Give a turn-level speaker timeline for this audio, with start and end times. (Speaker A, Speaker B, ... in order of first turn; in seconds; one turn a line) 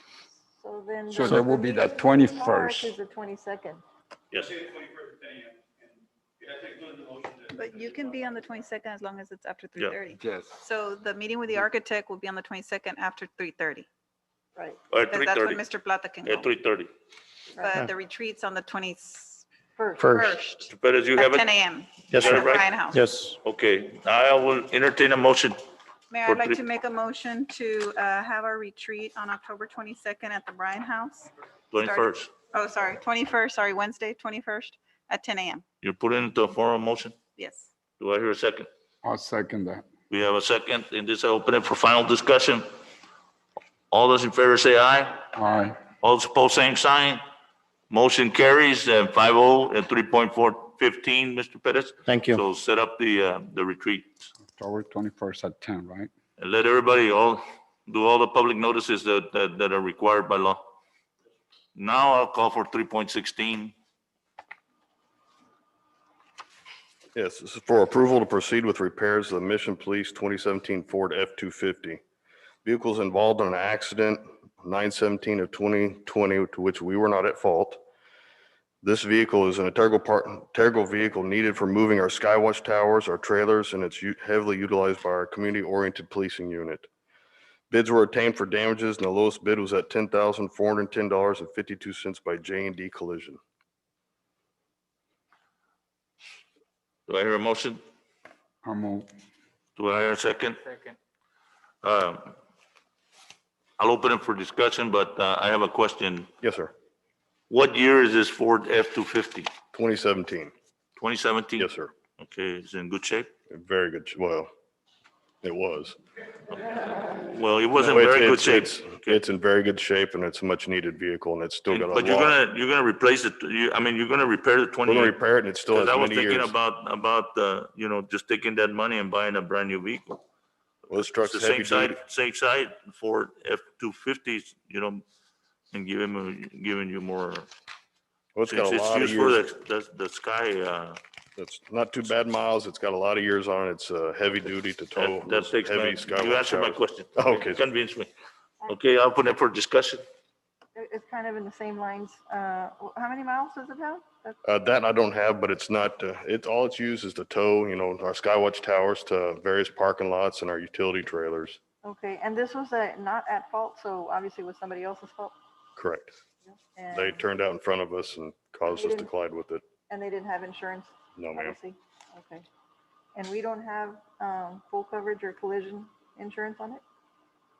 Speaker A: 0.6-3.8
Speaker B: 1.1-3.0
Speaker C: 4.3-4.6
Speaker D: 7.5-13.8
Speaker B: 10.2-10.5
Speaker C: 14.9-15.6
Speaker D: 15.1-16.5
Speaker C: 16.2-16.9
Speaker D: 17.6-19.4
Speaker A: 19.8-20.1
Speaker E: 20.0-20.4
Speaker D: 20.0-23.0
Speaker C: 20.7-21.5
Speaker E: 22.1-23.4
Speaker C: 22.1-22.6
Speaker C: 23.4-25.6
Speaker D: 26.1-31.3
Speaker C: 26.2-26.6
Speaker C: 31.7-32.3
Speaker D: 31.8-35.6
Speaker C: 35.8-37.2
Speaker D: 37.4-37.7
Speaker C: 38.0-38.7
Speaker B: 39.0-39.9
Speaker C: 40.1-42.6
Speaker C: 43.9-45.2
Speaker B: 45.3-45.8
Speaker C: 46.0-47.2
Speaker C: 47.9-54.1
Speaker E: 52.0-52.4
Speaker B: 54.5-56.1
Speaker C: 56.4-60.6
Speaker C: 61.7-63.7
Speaker F: 67.1-72.0
Speaker F: 72.6-77.8
Speaker F: 78.8-86.9
Speaker F: 87.7-93.4
Speaker C: 97.1-97.8
Speaker B: 98.6-99.1
Speaker C: 99.8-100.6
Speaker C: 101.8-102.3
Speaker C: 103.8-106.3
Speaker F: 106.4-106.7
Speaker C: 107.5-109.5
Speaker F: 109.7-110.5
Speaker C: 111.0-113.3
Speaker F: 111.6-111.9
Speaker F: 113.5-114.5
Speaker F: 115.4-116.0
Speaker C: 117.1-119.2
Speaker F: 117.8-122.4
Speaker C: 121.7-125.1
Speaker F: 124.8-126.5
Speaker C: 125.7-130.2
Speaker F: 130.9-132.0
Speaker C: 131.2-135.0
Speaker C: 135.7-137.5
Speaker F: 138.3-139.4
Speaker C: 138.5-141.0
Speaker F: 141.4-147.6
Speaker C: 144.9-148.1
Speaker C: 148.7-150.0
Speaker A: 150.8-154.4
Speaker F: 154.4-161.6
Speaker A: 161.8-165.3
Speaker F: 165.8-166.1
Speaker A: 166.5-167.2
Speaker F: 166.9-169.6
Speaker A: 168.7-169.1
Speaker A: 169.9-172.4
Speaker F: 171.2-171.6
Speaker A: 173.1-176.8